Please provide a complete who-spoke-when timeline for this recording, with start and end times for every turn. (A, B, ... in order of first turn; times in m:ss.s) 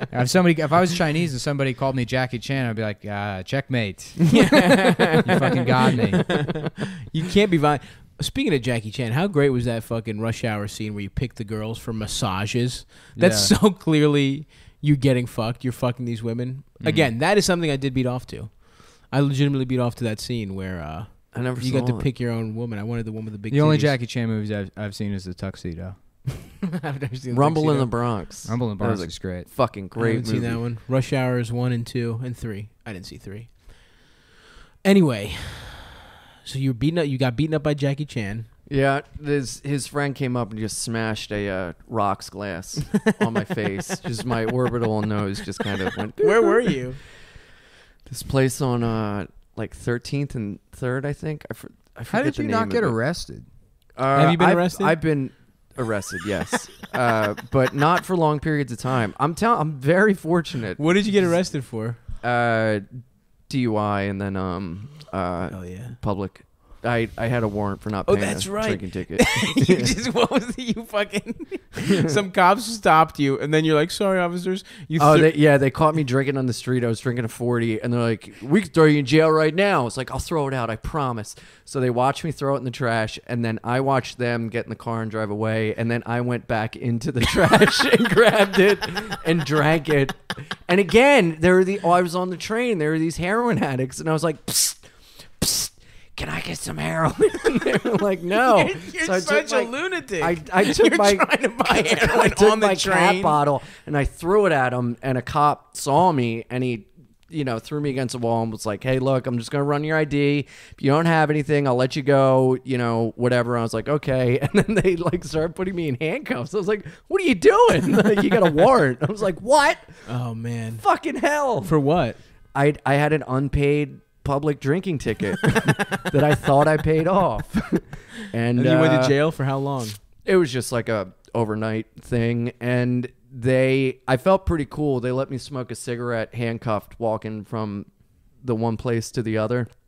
0:00.1-0:04.5 A
0:04.3-0:24.0 B
0:05.2-0:06.3 A
0:13.2-0:13.5 A
0:16.8-0:17.1 A
0:21.3-0:22.1 C
0:23.5-0:26.0 A
0:26.6-0:27.9 B
0:27.3-0:30.6 C
0:28.4-0:29.5 A
0:30.0-0:34.1 B
0:34.8-0:38.5 B
0:38.7-0:46.8 C
0:46.2-0:47.0 B
0:48.1-0:53.0 C
0:52.1-0:53.5 A
0:54.0-1:01.3 C
0:54.1-0:55.0 B
1:00.8-1:02.0 B
1:02.2-1:09.9 C
1:05.5-1:06.0 B
1:08.1-1:15.3 B
1:11.8-1:12.2 C
1:15.0-1:34.9 C
1:35.4-2:00.0 C
1:38.3-1:43.4 B
2:00.0-2:00.8 B
2:00.8-2:01.7 C
2:01.6-2:02.2 B
2:02.5-2:09.2 C
2:08.6-2:10.0 B
2:10.2-2:17.9 C
2:18.4-2:19.7 C